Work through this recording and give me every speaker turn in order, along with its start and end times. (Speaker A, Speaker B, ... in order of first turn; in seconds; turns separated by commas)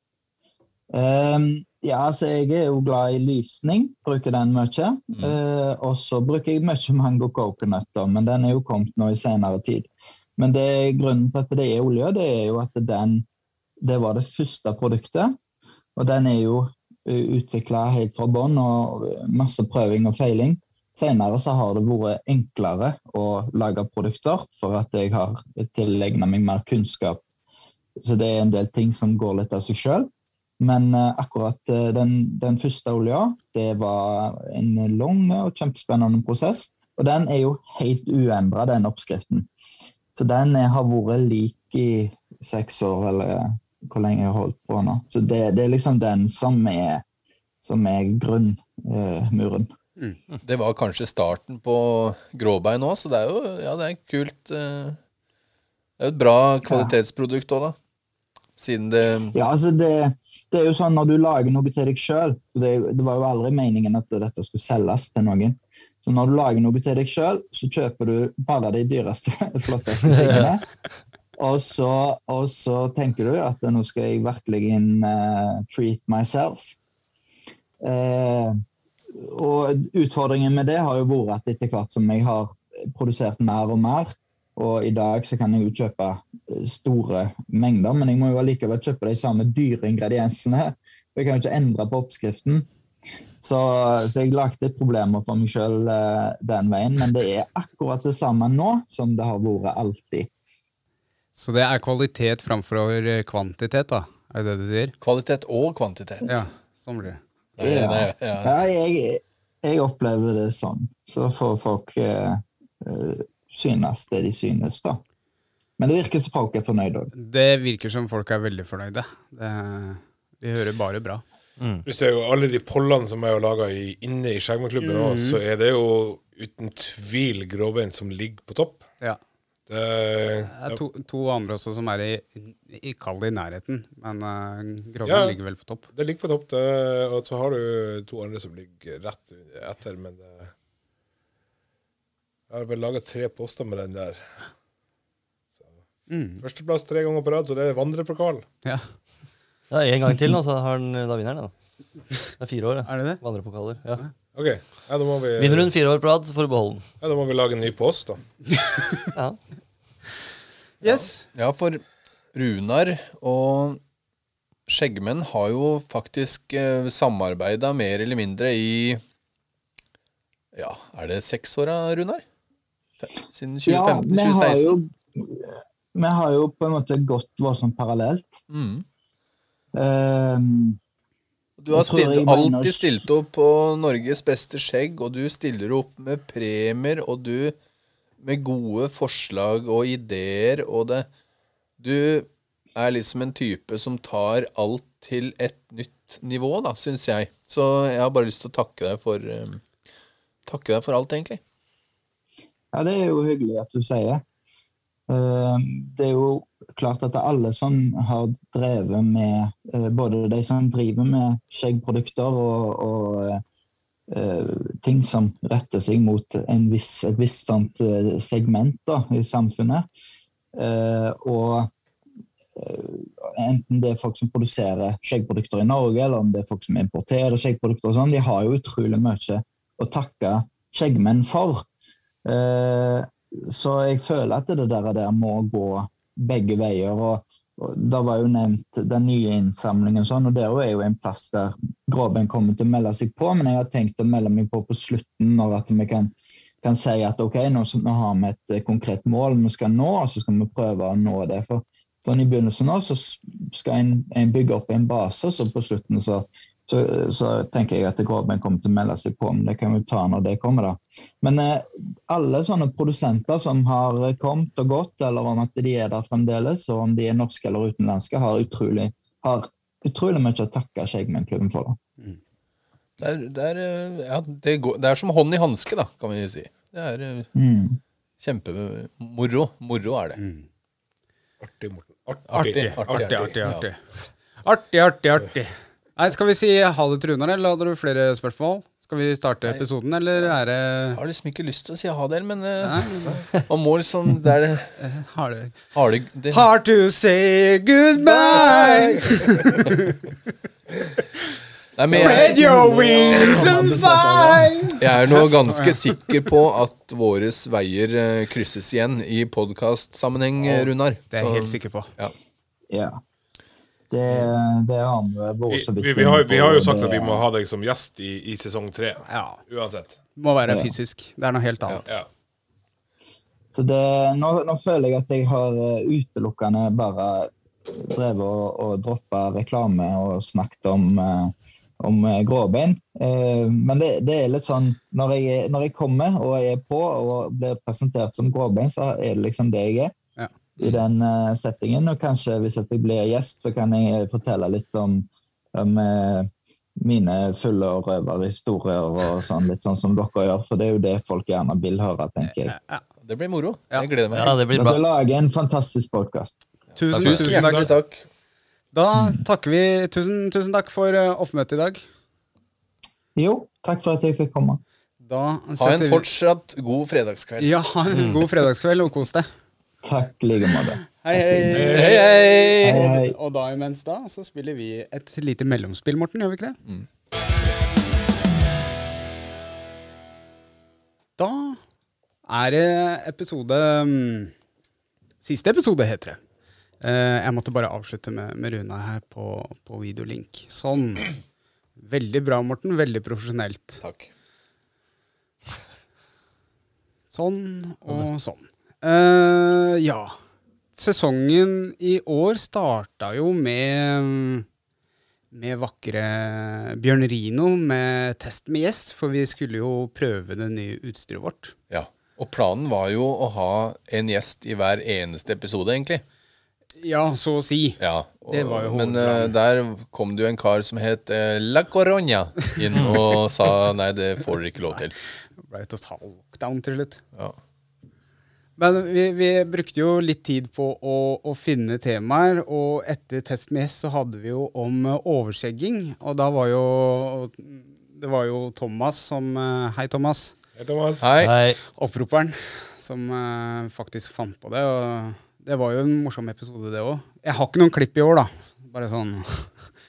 Speaker A: 0.9-13.2, Speaker A: 13.8-15.4, Speaker A: 16.0-27.2, Speaker A: 28.0-39.5, Speaker A: 40.1-47.0, Speaker A: 47.6-49.7, Speaker B: 50.4-55.0, Speaker B: 56.0-57.8, Speaker A: 56.6-57.0, Speaker B: 58.6-59.4, Speaker A: 59.3-70.7, Speaker A: 71.4-76.8, Speaker A: 77.8-78.6, Speaker A: 79.1-92.7, Speaker A: 93.4-100.3, Speaker C: 101.3-104.9, Speaker B: 105.0-106.4, Speaker C: 106.2-107.2, Speaker B: 107.6-108.5, Speaker A: 107.6-115.0, Speaker A: 115.8-117.1, Speaker C: 117.2-121.2, Speaker D: 121.6-121.8, Speaker E: 121.8-128.8, Speaker C: 124.8-125.4, Speaker E: 129.7-130.8, Speaker C: 130.5-135.9, Speaker E: 135.1-135.4, Speaker E: 135.9-140.5, Speaker E: 142.5-144.2, Speaker C: 146.1-146.4, Speaker E: 146.4-148.4, Speaker D: 149.7-151.5, Speaker D: 152.4-154.0, Speaker C: 152.9-153.2, Speaker E: 154.3-155.7, Speaker D: 155.4-156.9, Speaker E: 157.0-158.2, Speaker C: 158.6-159.0, Speaker C: 160.8-161.3, Speaker B: 161.3-161.8, Speaker B: 162.3-163.8, Speaker B: 164.7-169.0, Speaker B: 170.5-172.2, Speaker B: 173.0-174.8, Speaker A: 173.7-178.4, Speaker B: 178.5-178.8, Speaker A: 179.7-180.8, Speaker B: 181.6-187.6, Speaker A: 181.7-183.1, Speaker B: 188.2-191.1, Speaker B: 191.8-199.6, Speaker B: 200.5-201.4, Speaker A: 202.7-204.2, Speaker A: 205.1-213.4, Speaker A: 214.1-219.9, Speaker A: 220.6-221.7, Speaker A: 222.6-231.7, Speaker A: 232.2-271.8, Speaker B: 273.0-277.3, Speaker A: 277.4-277.8, Speaker B: 278.2-280.2, Speaker C: 280.2-280.5, Speaker E: 281.4-283.2, Speaker B: 282.3-283.6, Speaker C: 282.5-283.8, Speaker C: 284.4-291.0, Speaker B: 290.9-294.7, Speaker C: 292.6-293.2, Speaker C: 294.8-295.6, Speaker B: 295.7-296.5, Speaker C: 296.3-300.1, Speaker B: 298.0-299.7, Speaker B: 301.8-303.7, Speaker C: 301.9-306.1, Speaker D: 303.6-304.4, Speaker B: 304.8-312.1, Speaker C: 310.5-311.9, Speaker A: 312.7-313.0, Speaker A: 313.9-317.2, Speaker E: 315.5-320.0, Speaker C: 319.1-319.4, Speaker C: 320.2-321.9, Speaker A: 320.5-320.7, Speaker A: 323.5-339.9, Speaker A: 340.6-352.6, Speaker C: 352.2-352.8, Speaker B: 353.0-354.4, Speaker D: 354.1-354.8, Speaker A: 354.5-356.4, Speaker C: 356.8-357.7, Speaker D: 356.9-357.4, Speaker B: 357.0-358.1, Speaker E: 357.1-357.7, Speaker C: 358.7-361.8, Speaker A: 363.2-364.6, Speaker C: 365.0-366.1, Speaker B: 365.6-367.5, Speaker C: 367.4-369.3, Speaker A: 369.8-371.7, Speaker C: 371.0-376.6, Speaker E: 371.5-372.0, Speaker B: 371.7-372.8, Speaker A: 372.6-373.2, Speaker C: 381.2-381.6, Speaker C: 382.3-384.3, Speaker C: 385.2-386.2, Speaker C: 386.8-391.1, Speaker C: 391.8-393.8, Speaker B: 393.8-394.1, Speaker C: 397.1-400.1, Speaker C: 400.8-404.5, Speaker C: 405.3-411.5, Speaker B: 411.7-416.0, Speaker C: 416.8-419.3, Speaker B: 417.8-425.0, Speaker D: 422.7-423.0, Speaker C: 425.5-427.0, Speaker C: 428.6-440.3, Speaker E: 440.6-441.0, Speaker B: 441.0-441.4, Speaker D: 441.2-441.6, Speaker C: 441.8-449.5